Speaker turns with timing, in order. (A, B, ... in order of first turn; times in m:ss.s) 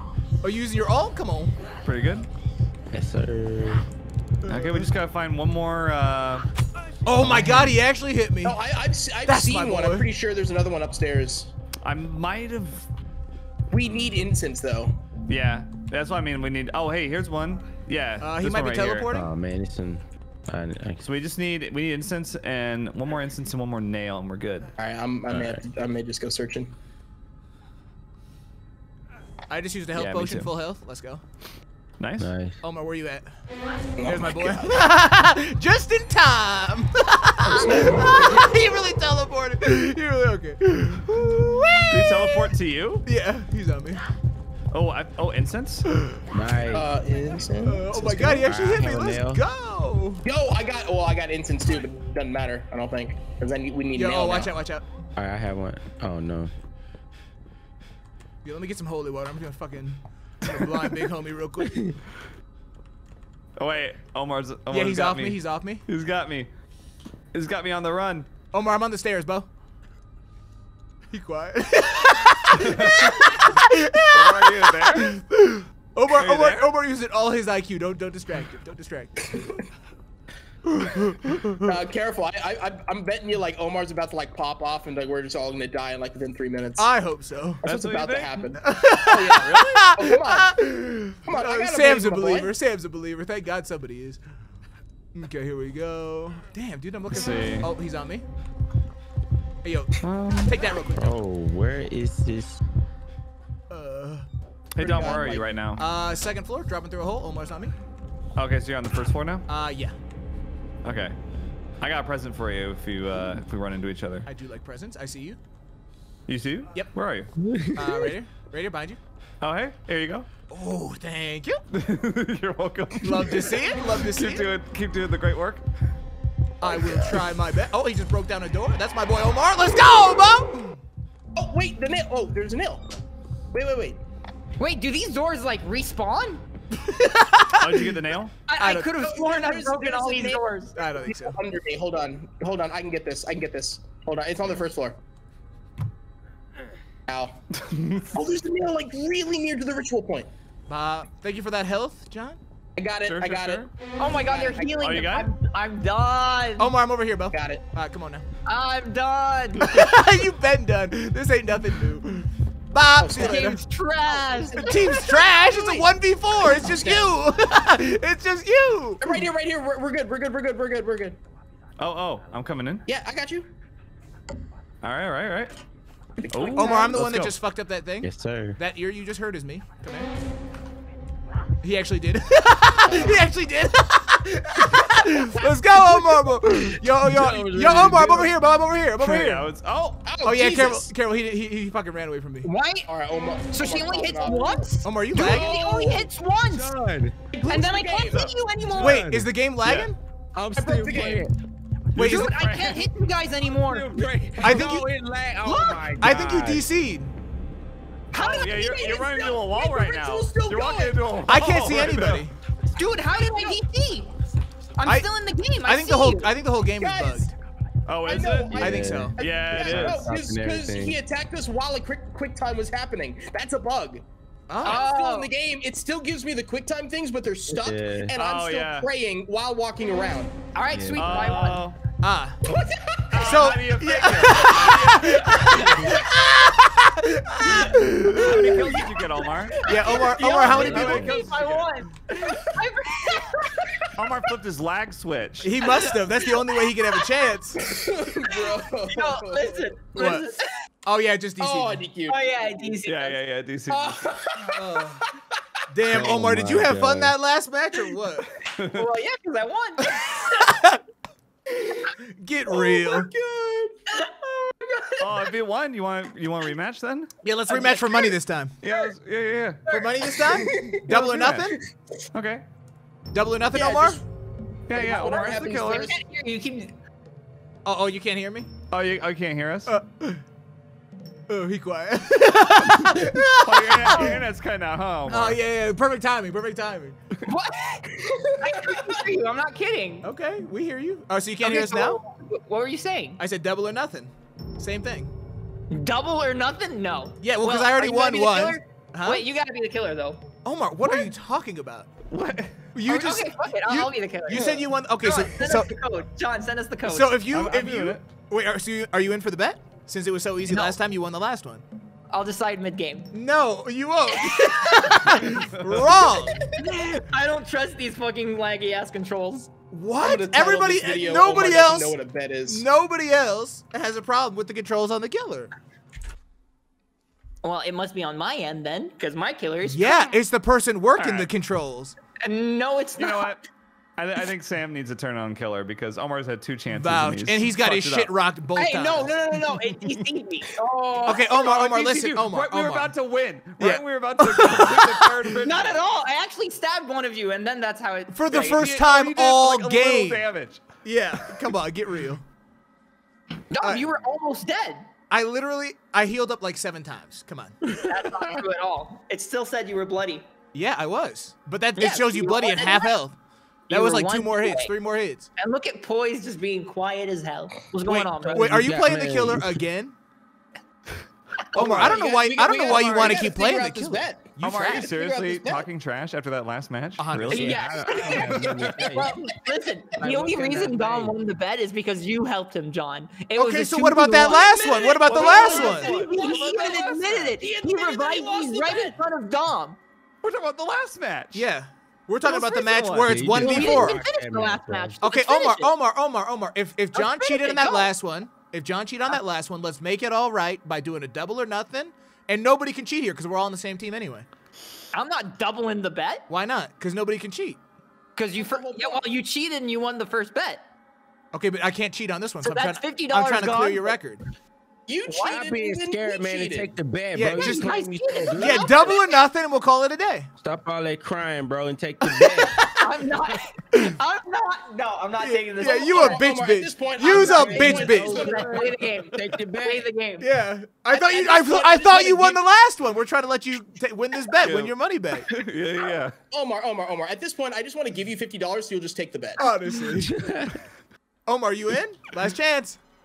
0:00.4-0:01.6 A
0:01.8-0:02.3 B
0:02.9-0:03.9 C
0:04.4-0:04.8 A
0:04.5-0:06.4 B
0:07.1-0:08.6 A
0:08.4-0:11.5 D
0:09.3-0:10.1 A
0:11.8-0:12.9 B
0:13.7-0:15.0 D
0:15.3-0:19.1 B
0:18.2-0:19.3 A
0:19.1-0:21.0 C
0:21.0-0:24.7 B
0:24.8-0:26.7 D
0:25.3-0:25.6 C
0:29.5-0:31.2 A
0:30.0-0:30.5 B
0:32.0-0:32.3 B
0:32.2-0:32.6 C
0:32.6-0:33.3 A
0:34.0-0:34.8 D
0:34.0-0:42.5 A
0:37.4-0:38.6 D
0:41.9-0:43.0 B
0:43.0-0:44.0 A
0:44.7-0:45.9 B
0:45.9-0:46.2 A
0:46.3-0:46.9 C
0:46.7-0:48.5 D
0:47.6-0:50.2 A
0:48.1-0:49.4 C
0:50.2-0:54.5 D
0:53.9-0:54.8 A
0:55.2-0:56.5 C
0:58.4-1:01.9 A
1:03.6-1:06.5 B
1:04.7-1:05.8 A
1:07.3-1:08.3 B
1:08.5-1:09.5 A
1:11.1-1:19.2 A
1:12.6-1:13.5 B
1:14.1-1:15.2 B
1:16.1-1:16.6 B
1:20.6-1:21.8 A
1:21.6-1:26.9 D
1:26.8-1:27.6 A
1:27.6-1:28.5 B
1:27.6-1:30.6 D
1:28.6-1:34.2 A
1:31.2-1:32.5 D
1:35.1-1:38.3 A
1:37.1-1:37.7 B
1:39.6-1:41.2 A
1:40.0-1:40.7 B
1:41.0-1:42.6 C
1:43.7-1:44.3 A
1:44.8-1:45.8 B
1:44.8-1:45.4 D
1:45.8-1:47.7 A
1:48.4-1:49.5 B
1:49.5-1:50.0 A
1:50.8-1:51.2 B
1:51.8-1:54.3 B
1:54.3-1:55.4 A
1:56.3-1:57.3 B
1:57.4-1:58.0 C
1:57.8-1:59.0 A
1:59.4-2:00.3 B
2:00.5-2:01.6 A
2:01.7-2:03.6 B
2:03.0-2:04.5 A
2:04.1-2:05.6 B
2:06.6-2:10.8 A
2:06.6-2:07.3 D
2:11.4-2:12.9 D
2:13.5-2:14.0 D
2:14.6-2:16.4 E
2:16.7-2:18.0 A
2:17.5-2:18.4 B
2:18.5-2:20.7 E
2:18.6-2:19.1 A
2:19.1-2:25.0 D
2:20.8-2:21.4 A
2:27.1-2:27.4 D
2:27.6-2:28.1 B
2:28.1-2:30.3 D
2:30.7-2:32.4 A
2:32.8-2:34.9 D
2:33.0-2:33.7 B
2:34.0-2:36.7 E
2:34.8-2:35.3 B
2:36.6-2:38.2 A
2:37.3-2:37.7 D
2:38.5-2:39.8 E
2:39.6-2:43.6 A
2:43.0-2:43.5 D
2:43.1-2:45.9 E
2:44.5-2:49.2 A
2:46.6-2:47.2 D
2:49.0-2:51.2 D
2:51.8-2:52.8 B
2:52.9-2:53.5 D
2:54.8-2:55.5 B
2:56.2-2:57.1 D
2:56.3-2:57.4 B
2:56.5-3:00.1 A
2:58.0-2:58.6 C
3:01.6-3:09.5 A
3:02.9-3:03.3 D
3:04.7-3:08.3 D
3:09.0-3:10.1 B
3:10.0-3:10.9 D
3:10.2-3:12.5 A
3:12.4-3:12.9 E
3:12.9-3:16.1 D
3:13.5-3:16.7 E
3:14.8-3:15.5 A
3:16.5-3:17.2 C
3:17.3-3:18.4 D
3:17.5-3:19.0 E
3:18.6-3:19.3 C
3:18.8-3:20.0 A
3:19.6-3:19.9 B
3:20.4-3:21.3 C
3:20.5-3:21.3 D
3:22.0-3:22.8 B
3:22.0-3:22.4 A
3:22.0-3:23.9 E
3:23.6-3:26.7 C
3:24.4-3:24.8 D
3:24.4-3:24.9 A
3:25.4-3:26.0 D
3:25.5-3:25.9 E
3:26.0-3:27.1 A
3:28.1-3:29.0 E
3:28.1-3:32.3 B
3:28.4-3:31.0 D
3:31.3-3:32.3 A
3:32.7-3:34.1 E
3:33.1-3:33.6 D
3:34.8-3:36.3 E
3:34.8-3:35.1 A
3:35.6-3:37.3 A
3:36.8-3:37.3 D
3:37.9-3:40.1 B
3:38.1-3:44.0 D
3:38.6-3:41.0 C
3:38.6-3:39.2 A
3:44.5-3:44.8 A
3:44.6-3:50.3 D
3:44.6-3:45.3 E
3:47.5-3:48.1 C
3:48.2-3:48.9 B
3:50.5-3:51.6 E
3:50.7-3:51.2 C
3:50.9-3:51.8 B
3:52.0-3:52.4 A
3:52.5-3:53.5 D
3:53.1-3:55.6 B
3:53.2-3:58.7 A
3:54.6-3:56.0 D
3:57.4-4:01.0 D
3:58.2-3:59.7 B
3:59.6-4:01.2 A
4:00.4-4:01.2 C
4:00.4-4:01.7 B
4:00.6-4:03.6 E
4:03.6-4:03.9 D
4:04.0-4:05.8 B
4:05.4-4:07.7 A
4:05.8-4:06.4 E
4:07.6-4:09.6 D
4:08.9-4:10.5 E
4:09.9-4:10.3 A
4:10.8-4:11.8 A
4:11.4-4:12.8 D
4:12.1-4:13.2 E
4:12.9-4:14.1 B
4:13.7-4:14.8 D
4:14.5-4:15.0 A
4:15.7-4:18.4 A
4:15.8-4:17.1 C
4:18.6-4:18.9 B
4:18.7-4:20.6 E
4:20.0-4:20.8 A
4:21.6-4:23.1 A
4:22.5-4:23.8 D
4:23.9-4:25.0 E
4:25.0-4:27.1 B
4:27.2-4:28.6 A
4:27.5-4:28.1 D
4:28.6-4:29.7 B
4:29.7-4:30.0 E
4:29.7-4:31.6 A
4:30.3-4:30.8 D
4:30.9-4:31.5 B
4:32.1-4:32.4 B
4:33.1-4:34.0 A
4:33.5-4:34.0 D
4:34.7-4:35.9 B
4:34.7-4:36.0 D
4:35.6-4:36.8 E
4:37.6-4:38.5 A
4:38.7-4:39.7 B
4:39.7-4:40.2 A
4:41.3-4:44.2 A
4:43.4-4:45.4 B
4:43.9-4:44.2 E
4:45.1-4:47.0 A
4:47.2-4:50.1 E
4:48.0-4:49.0 D
4:50.0-4:52.0 A
4:51.4-4:53.2 E
4:53.2-4:55.1 A
4:55.7-5:00.3 E
4:57.2-4:59.2 A
5:00.4-5:01.9 A
5:00.8-5:01.1 E
5:02.1-5:02.6 B
5:02.7-5:05.7 A
5:02.9-5:07.2 E
5:06.9-5:11.6 A
5:07.3-5:08.1 B
5:10.5-5:10.8 E
5:12.1-5:13.1 E
5:13.1-5:16.5 A
5:14.1-5:15.3 E
5:15.6-5:15.9 B
5:16.4-5:16.6 D
5:16.5-5:19.5 E
5:19.7-5:22.0 A
5:20.0-5:22.7 D
5:22.5-5:25.5 A
5:27.4-5:30.2 E
5:29.7-5:32.0 A
5:31.0-5:31.3 B
5:32.2-5:33.3 E
5:33.0-5:33.4 B
5:34.0-5:38.1 B
5:36.7-5:39.2 A
5:38.6-5:41.6 E
5:41.1-5:42.9 A
5:41.4-5:45.8 B
5:43.6-5:45.3 A
5:45.4-5:48.7 E
5:48.1-5:50.2 A
5:48.3-5:50.6 B
5:50.8-5:52.2 A
5:53.5-5:54.9 E
5:53.6-5:53.9 A
5:55.1-5:57.6 A
5:57.6-6:00.3 E
6:00.5-6:03.2 A
6:01.8-6:03.0 E
6:03.7-6:04.7 E
6:03.7-6:05.3 A
6:05.4-6:08.6 E
6:07.8-6:10.0 A
6:08.3-6:09.6 C
6:11.6-6:14.9 A
6:11.6-6:15.7 D
6:14.4-6:18.8 B
6:17.0-6:17.8 A
6:17.3-6:29.8 E
6:17.3-6:19.3 C
6:20.0-6:21.2 C
6:23.4-6:26.1 A
6:24.3-6:29.0 D
6:30.2-6:31.5 B
6:31.3-6:34.0 A
6:32.2-6:35.7 E
6:33.0-6:35.0 C
6:35.0-6:44.3 A
6:36.9-6:37.9 E
6:44.9-6:46.3 E
6:46.3-6:47.6 A
6:48.2-6:50.6 E
6:48.4-6:49.1 D
6:51.3-6:54.2 A
6:52.4-6:54.0 E
6:54.9-6:56.7 D
6:55.1-6:58.9 C
6:57.1-6:57.8 A
6:57.3-6:59.2 E
6:58.3-7:00.3 A
7:00.4-7:02.6 C
7:02.1-7:03.0 A
7:02.8-7:06.3 E
7:03.7-7:04.0 A
7:05.2-7:08.5 A
7:05.6-7:09.2 D
7:07.0-7:10.3 E
7:07.5-7:09.9 C
7:10.2-7:15.3 A
7:10.9-7:12.4 D
7:14.4-7:14.7 B
7:15.3-7:16.2 B
7:16.3-7:19.6 D
7:19.4-7:20.5 A
7:20.1-7:20.5 E
7:21.3-7:22.8 A